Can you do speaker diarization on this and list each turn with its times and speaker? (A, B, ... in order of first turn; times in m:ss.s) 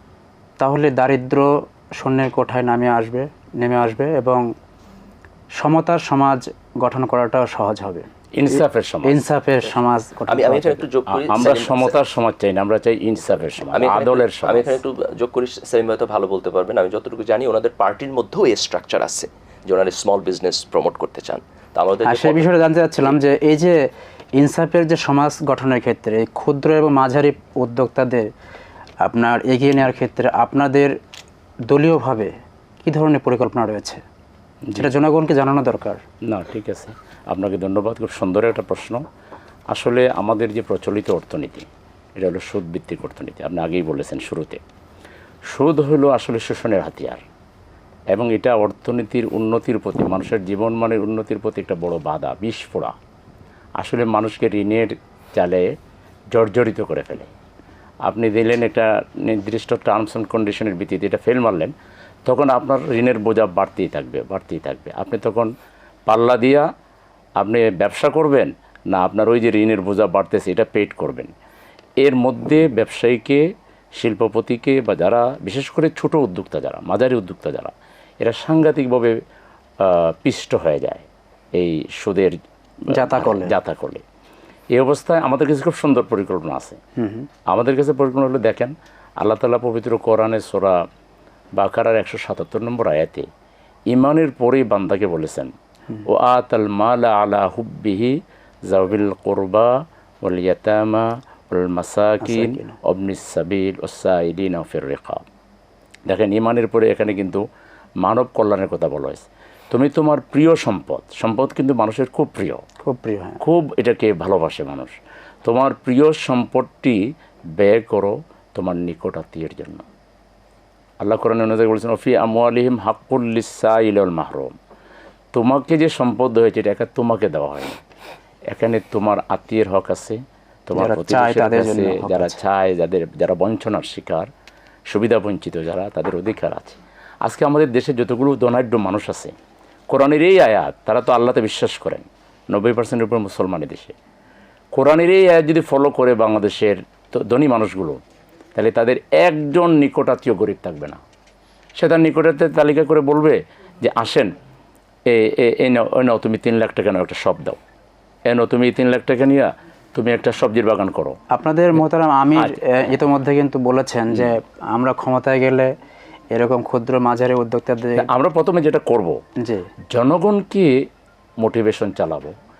0:00.6-0:04.5 A
0:05.6-0:10.8 A
0:08.3-0:09.2 B
0:10.3-0:12.0 C
0:11.1-0:14.8 B
0:13.7-0:22.5 C
0:22.0-0:28.3 A
0:29.0-0:30.9 A
0:31.7-0:32.3 A
0:32.8-0:34.0 A
0:34.7-0:36.0 A
0:36.2-0:39.0 B
0:39.7-0:44.6 B
0:45.5-0:47.2 B
0:48.1-0:53.0 B
0:53.8-0:55.7 B
0:56.3-0:57.3 B
0:58.0-1:01.7 B
1:02.2-1:05.5 B
1:06.1-1:06.7 B
1:07.4-1:11.3 B
1:12.0-1:13.4 B
1:14.0-1:19.2 B
1:19.8-1:24.0 B
1:22.9-1:23.5 A
1:24.7-1:26.8 B
1:27.0-1:27.3 A
1:27.5-1:30.8 B
1:31.5-1:33.3 B
1:33.9-1:35.5 B
1:36.0-1:45.2 B
1:42.2-1:42.8 A
1:46.1-1:47.4 B
1:48.0-1:52.6 B
1:52.8-1:53.4 A
1:53.4-1:57.0 B
1:57.6-1:59.8 B
2:01.0-2:04.5 B
2:05.3-2:07.8 B
2:08.5-2:14.3 B
2:10.8-2:12.4 A
2:14.9-2:19.3 B
2:19.9-2:23.9 B
2:24.7-2:28.0 B
2:28.5-2:31.0 B
2:31.8-2:34.3 B
2:35.0-2:37.6 B
2:38.2-2:41.2 B
2:41.3-2:45.7 A
2:46.3-2:48.1 A
2:48.0-2:49.2 B
2:49.4-2:49.7 A
2:49.9-2:50.7 B
2:51.4-2:52.3 B